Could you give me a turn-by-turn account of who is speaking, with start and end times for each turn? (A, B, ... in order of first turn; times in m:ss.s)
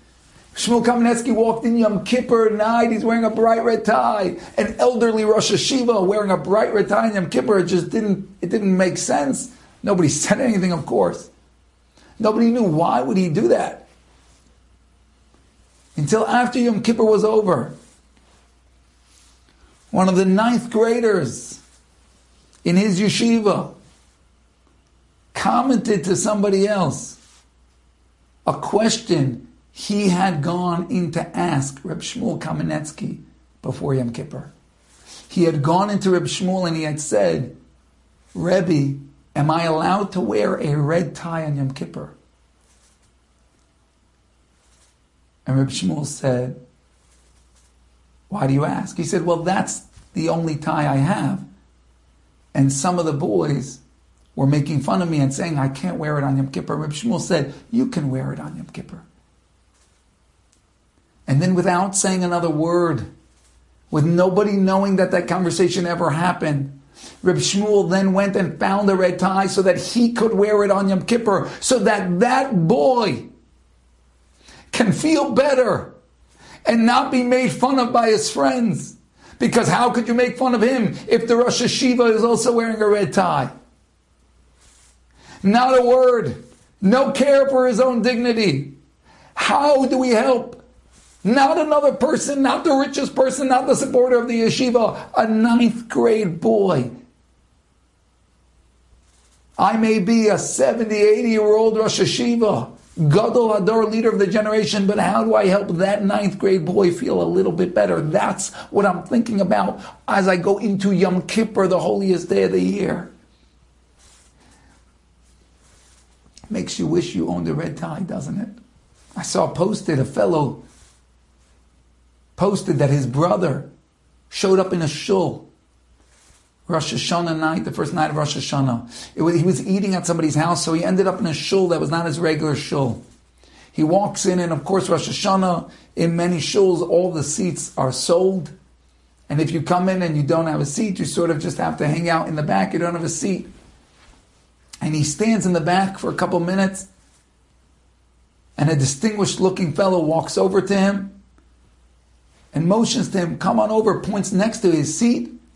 0:00.6-0:11.3 A
0:12.2-0:13.9 A
0:16.0-0:17.8 A
0:19.9-0:21.6 A
0:22.6-0:23.8 A
0:25.3-0:27.2 A
0:28.5-0:34.5 A
0:35.3-0:37.6 A
0:38.4-0:42.2 A
0:45.5-0:46.6 A
0:48.3-0:51.5 A
0:52.5-0:53.8 A
0:54.4-0:59.1 A
1:01.3-1:03.1 A
1:03.9-1:13.3 A
1:14.7-1:16.0 A
1:16.6-1:23.5 A
1:25.4-1:28.8 A
1:29.4-1:30.6 A
1:31.2-1:36.9 A
1:39.6-1:53.1 A
1:56.5-1:58.6 A
1:59.2-2:00.6 A
2:02.4-2:03.7 A
2:04.3-2:05.5 A
2:06.7-2:13.0 A
2:13.7-2:18.6 A
2:19.3-2:23.5 A
2:24.8-2:26.9 A
2:28.6-2:31.2 A
2:32.5-2:35.4 A